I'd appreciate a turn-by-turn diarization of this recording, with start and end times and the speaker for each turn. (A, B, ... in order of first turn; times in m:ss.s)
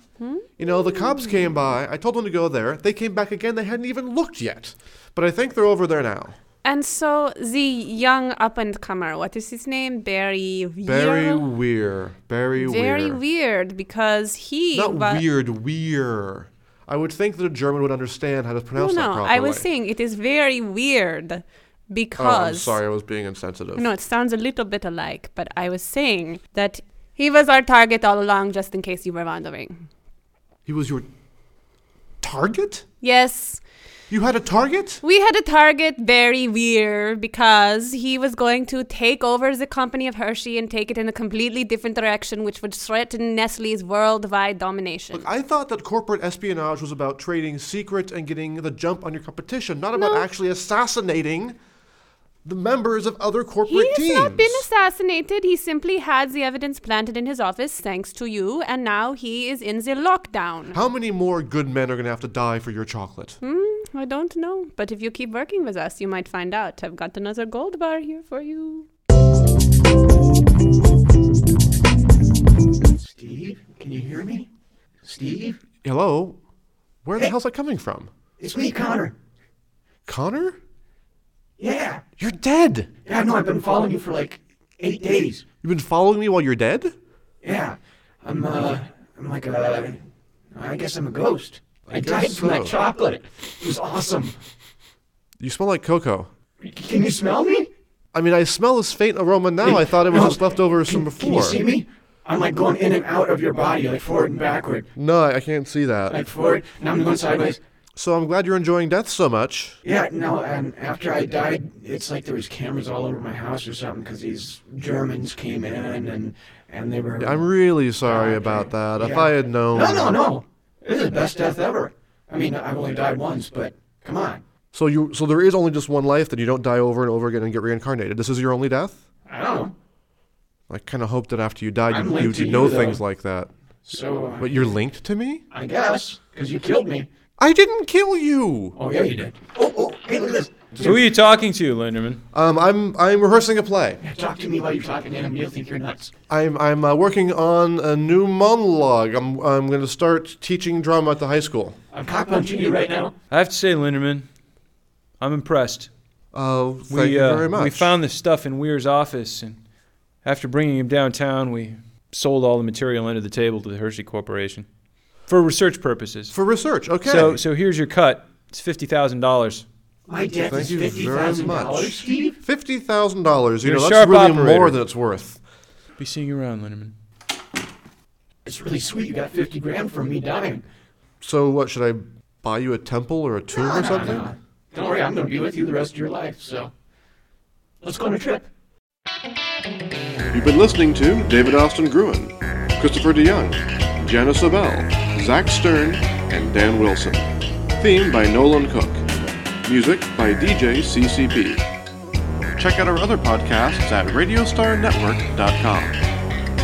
0:00.2-0:01.5 A
0:00.6-0:06.4 B
0:06.6-0:11.5 A
0:10.8-0:13.2 B
0:12.6-0:15.2 A
0:14.7-0:19.7 B
0:18.7-0:22.8 A
0:22.2-0:23.8 B
0:23.8-0:29.8 A
0:30.6-0:31.1 B
0:32.2-0:32.8 B
0:33.0-0:33.6 A
0:34.1-0:35.0 B
0:35.0-0:45.3 A
0:45.1-0:51.6 B
0:50.0-0:50.2 A
0:52.4-0:54.6 B
0:53.6-1:00.8 A
1:00.7-1:03.4 B
1:03.4-1:08.9 A
1:12.8-1:14.5 C
1:15.0-1:15.6 C
1:15.8-1:16.4 B
1:17.0-1:18.1 B
1:18.4-1:19.1 C
1:20.1-1:20.6 B
1:21.6-1:22.0 C
1:22.2-1:22.9 B
1:23.0-1:25.4 C
1:25.6-1:26.9 B
1:27.4-1:34.4 C
1:31.9-1:32.8 B
1:35.4-1:36.3 B
1:36.6-1:37.7 C
1:38.1-1:41.6 B
1:39.6-1:44.9 C
1:45.0-1:46.2 B
1:46.1-1:47.6 C
1:48.0-1:49.8 B
1:49.8-2:04.4 C
1:57.2-2:00.2 B
2:04.7-2:09.0 B
2:09.2-2:09.7 C
2:10.7-2:13.5 B
2:11.9-2:13.0 C
2:13.8-2:14.7 C
2:14.4-2:15.4 B
2:15.5-2:17.1 C
2:17.4-2:18.8 B
2:18.8-2:20.9 C
2:20.7-2:21.0 B
2:20.8-2:22.2 D
2:22.3-2:24.0 B
2:24.0-2:26.1 C
2:26.3-2:31.8 B
2:31.9-2:33.1 C
2:33.3-2:34.3 D
2:35.2-2:35.9 D
2:36.3-2:38.0 B
2:36.9-2:39.6 D
2:40.2-2:44.7 D
2:45.3-2:46.4 D
2:46.3-2:47.4 B
2:47.0-2:49.6 D
2:50.1-2:52.4 C
2:50.4-2:55.4 B
2:53.6-2:54.8 D
2:56.0-2:57.0 D
2:58.4-3:00.6 C
3:01.2-3:04.3 B
3:03.5-3:06.7 C
3:07.8-3:08.5 C
3:10.3-3:19.1 B
3:19.6-3:21.6 B
3:22.6-3:26.0 B